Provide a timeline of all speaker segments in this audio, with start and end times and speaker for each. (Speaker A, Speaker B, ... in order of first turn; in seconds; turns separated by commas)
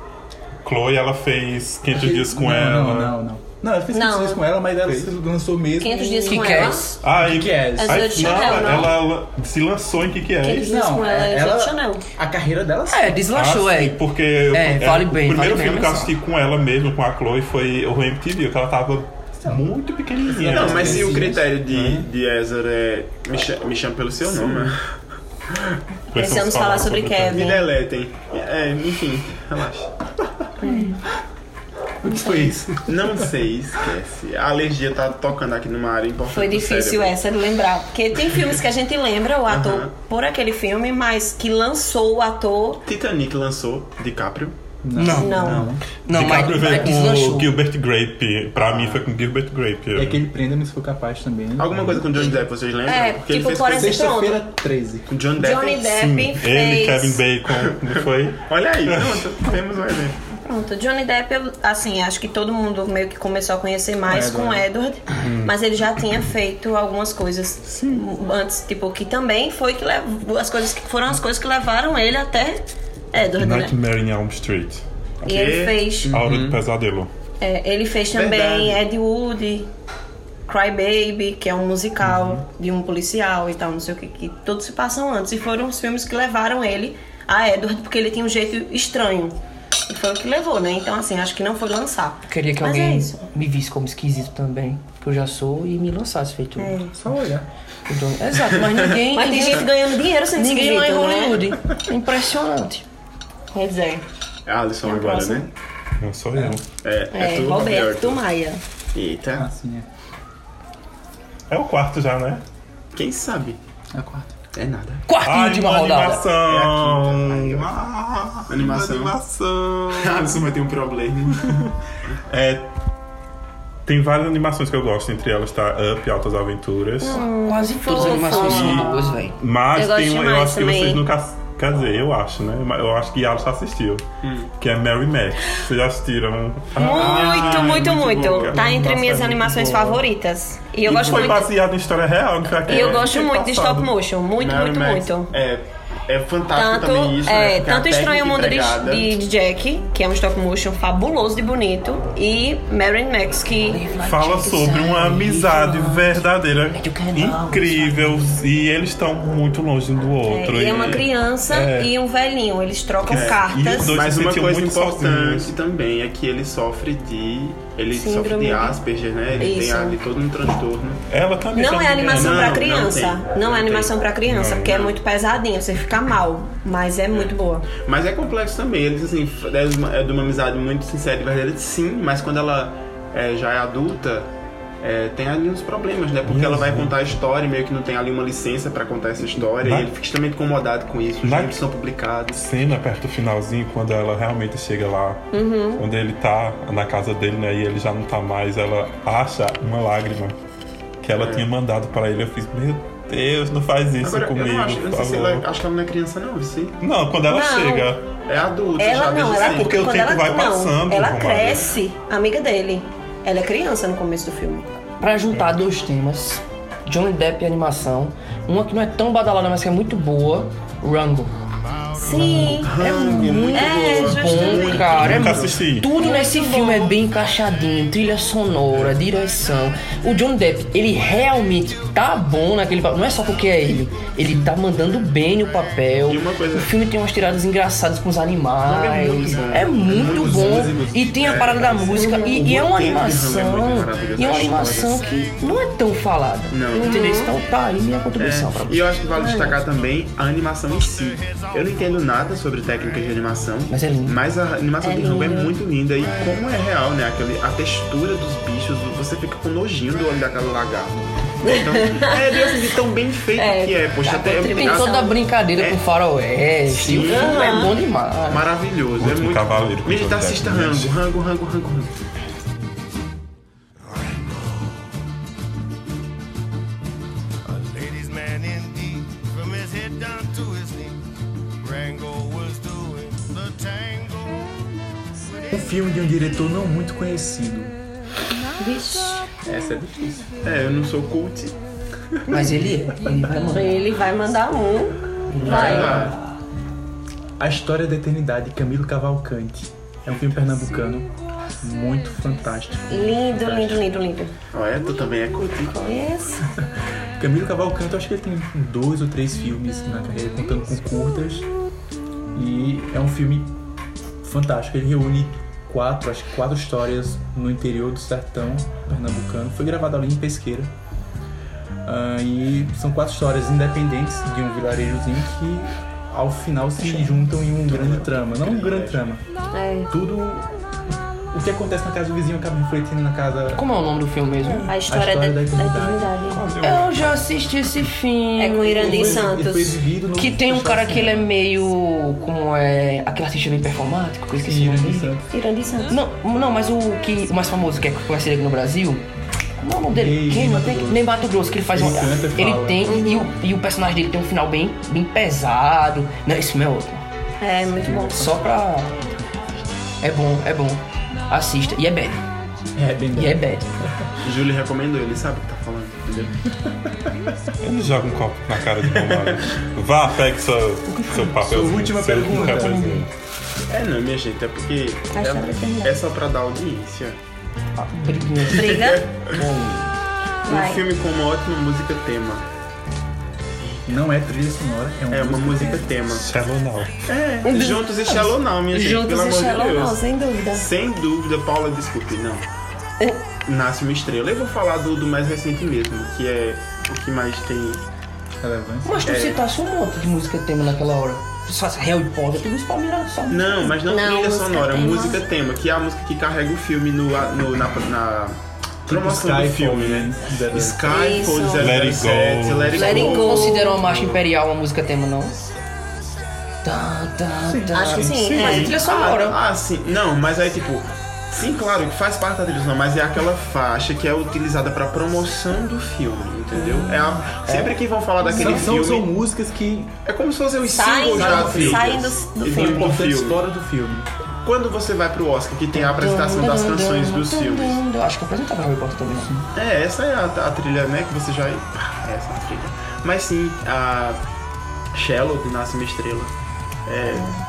Speaker A: 0.6-3.2, Speaker B: 1.9-6.2, Speaker C: 3.9-4.4, Speaker C: 5.7-7.1, Speaker D: 6.2-6.9, Speaker A: 7.0-10.7, Speaker B: 7.1-8.5, Speaker C: 7.8-9.0, Speaker C: 10.4-12.0, Speaker B: 10.6-13.2, Speaker D: 12.9-16.1, Speaker A: 13.3-21.2, Speaker B: 20.2-22.0, Speaker E: 20.4-24.9, Speaker E: 25.5-25.8, Speaker A: 26.1-27.6, Speaker C: 26.1-27.7, Speaker E: 27.3-29.9, Speaker C: 30.6-31.0, Speaker B: 30.6-31.0, Speaker B: 32.0-33.3, Speaker E: 32.8-37.1, Speaker C: 36.2-42.8, Speaker E: 39.5-39.9, Speaker E: 42.9-44.6, Speaker B: 44.8-45.8, Speaker D: 45.0-47.5, Speaker C: 45.1-45.7, Speaker A: 46.1-50.2, Speaker E: 48.5-49.0, Speaker B: 49.9-52.1, Speaker E: 51.6-54.1, Speaker C: 52.9-54.5, Speaker B: 53.8-55.1, Speaker E: 55.1-55.9, Speaker C: 55.4-57.2, Speaker A: 55.9-59.2, Speaker E: 57.5-60.2, Speaker C: 60.4-73.8, Speaker B: 64.0-64.7, Speaker A: 65.2-65.5, Speaker A: 67.7-68.0, Speaker A: 73.3-74.8, Speaker E: 75.2-76.6, Speaker C: 75.2-76.1, Speaker A: 76.1-77.1, Speaker C: 77.4-79.7, Speaker E: 78.1-78.8, Speaker C: 80.5-89.3, Speaker A: 82.1-82.3, Speaker C: 89.9-93.3, Speaker D: 92.3-96.8, Speaker C: 96.6-96.9, Speaker B: 96.9-97.5, Speaker D: 97.9-99.7, Speaker C: 99.1-101.5, Speaker D: 100.3-102.8, Speaker C: 103.5-104.0, Speaker E: 104.5-105.5, Speaker C: 104.8-105.5, Speaker A: 106.0-106.7, Speaker E: 106.8-108.2, Speaker C: 107.1-108.6, Speaker E: 108.9-109.5, Speaker B: 109.3-109.9, Speaker A: 111.5-112.4, Speaker E: 112.9-113.6, Speaker B: 113.9-114.3, Speaker E: 114.5-115.0, Speaker D: 115.1-116.3, Speaker A: 115.2-120.4, Speaker E: 116.4-117.8, Speaker E: 118.5-119.2, Speaker E: 119.9-121.7, Speaker A: 122.3-122.7, Speaker A: 123.8-127.3, Speaker C: 127.0-129.1, Speaker D: 127.1-129.3, Speaker A: 128.2-134.0, Speaker C: 129.7-131.1, Speaker E: 134.2-134.5, Speaker A: 134.6-140.0, Speaker C: 136.8-141.5, Speaker E: 136.8-138.6, Speaker A: 140.8-143.9, Speaker C: 142.6-145.3, Speaker E: 142.7-143.2, Speaker E: 144.4-149.1, Speaker C: 146.5-153.8, Speaker D: 153.6-158.4, Speaker A: 153.9-161.9, Speaker C: 160.2-164.0, Speaker A: 163.1-165.5, Speaker E: 163.1-171.0, Speaker C: 167.9-168.8, Speaker C: 169.4-170.0, Speaker A: 171.1-172.6, Speaker C: 171.5-177.7, Speaker E: 172.1-173.9, Speaker A: 174.2-174.8, Speaker E: 177.1-184.3, Speaker E: 184.8-192.5, Speaker A: 186.2-187.0, Speaker A: 189.6-189.9, Speaker A: 191.2-191.6, Speaker A: 192.3-200.3, Speaker C: 195.3-195.8, Speaker A: 201.0-205.5, Speaker E: 201.2-201.5, Speaker E: 204.0-206.8, Speaker A: 206.8-208.1, Speaker C: 207.2-207.9, Speaker E: 208.2-209.8, Speaker C: 208.8-214.7, Speaker A: 209.3-211.7, Speaker D: 215.0-221.4, Speaker F: 221.7-222.2, Speaker C: 221.9-225.0, Speaker D: 222.3-248.9, Speaker E: 222.6-225.6, Speaker A: 224.9-225.9, Speaker C: 225.9-227.0, Speaker E: 236.1-236.7, Speaker B: 238.7-241.3, Speaker E: 238.7-245.3, Speaker C: 241.9-242.5, Speaker E: 246.5-247.0, Speaker C: 246.7-247.3, Speaker E: 248.2-265.0, Speaker C: 249.1-249.6, Speaker F: 251.2-251.5, Speaker D: 253.7-254.2, Speaker C: 254.8-255.6, Speaker C: 261.5-262.2, Speaker C: 263.3-265.2, Speaker D: 264.1-268.5, Speaker E: 265.5-265.8, Speaker E: 266.7-267.7, Speaker C: 266.9-267.7, Speaker E: 268.2-271.9, Speaker A: 269.0-270.9, Speaker F: 273.9-274.7, Speaker F: 277.5-281.0, Speaker F: 281.6-284.5, Speaker B: 285.5-287.8, Speaker C: 288.6-289.3, Speaker B: 289.4-290.3, Speaker E: 290.4-291.6, Speaker D: 292.3-293.8, Speaker B: 292.9-293.6, Speaker C: 293.5-296.1, Speaker D: 295.3-296.3, Speaker E: 295.4-296.1, Speaker B: 297.4-301.1, Speaker B: 301.6-303.9, Speaker C: 302.9-304.3, Speaker E: 304.5-305.8, Speaker C: 305.6-306.4, Speaker B: 307.2-311.5, Speaker B: 312.3-313.5, Speaker B: 314.2-320.7, Speaker B: 321.8-329.2, Speaker E: 327.6-329.0, Speaker C: 329.5-329.9, Speaker B: 329.9-330.5, Speaker B: 331.3-333.6, Speaker D: 333.5-334.7, Speaker C: 334.6-336.4, Speaker B: 334.9-336.1, Speaker A: 336.3-337.2, Speaker D: 336.6-339.2, Speaker C: 338.4-339.8, Speaker B: 338.8-341.3, Speaker D: 340.1-345.1, Speaker B: 344.4-345.3, Speaker C: 345.3-346.0, Speaker D: 345.9-349.0, Speaker D: 349.6-357.0, Speaker B: 349.9-353.0, Speaker C: 352.9-353.2, Speaker C: 357.4-358.4, Speaker B: 357.8-358.5, Speaker D: 358.1-358.9, Speaker D: 360.0-362.2, Speaker B: 362.8-364.1, Speaker D: 363.1-363.7, Speaker E: 364.2-366.4, Speaker A: 367.6-373.1, Speaker E: 368.9-369.4, Speaker D: 370.9-371.3, Speaker B: 371.3-373.1, Speaker D: 372.4-373.0, Speaker E: 373.7-377.2, Speaker C: 375.1-376.0, Speaker D: 377.8-379.9, Speaker E: 378.5-379.3, Speaker C: 378.5-379.1, Speaker C: 380.4-380.8, Speaker E: 380.4-382.4, Speaker B: 383.9-385.9, Speaker E: 385.1-386.3, Speaker A: 386.1-386.9, Speaker E: 387.1-390.0, Speaker C: 387.4-390.6, Speaker E: 390.5-392.4, Speaker E: 393.4-397.8, Speaker B: 398.4-399.1, Speaker D: 398.8-403.7, Speaker E: 399.0-399.4, Speaker E: 403.3-413.5, Speaker C: 403.7-405.2, Speaker B: 408.9-411.1, Speaker C: 410.9-411.7, Speaker A: 411.6-413.0, Speaker D: 412.7-415.4, Speaker C: 412.7-413.8, Speaker D: 416.6-419.4, Speaker B: 417.4-418.1, Speaker C: 417.7-419.2, Speaker A: 418.1-418.6, Speaker E: 418.4-429.1, Speaker B: 428.2-429.9, Speaker E: 430.0-433.4, Speaker C: 430.6-432.9, Speaker B: 431.1-434.1, Speaker E: 434.4-437.8, Speaker D: 435.7-439.3, Speaker B: 439.2-439.4, Speaker E: 439.5-444.2, Speaker E: 444.9-446.3, Speaker E: 446.9-447.3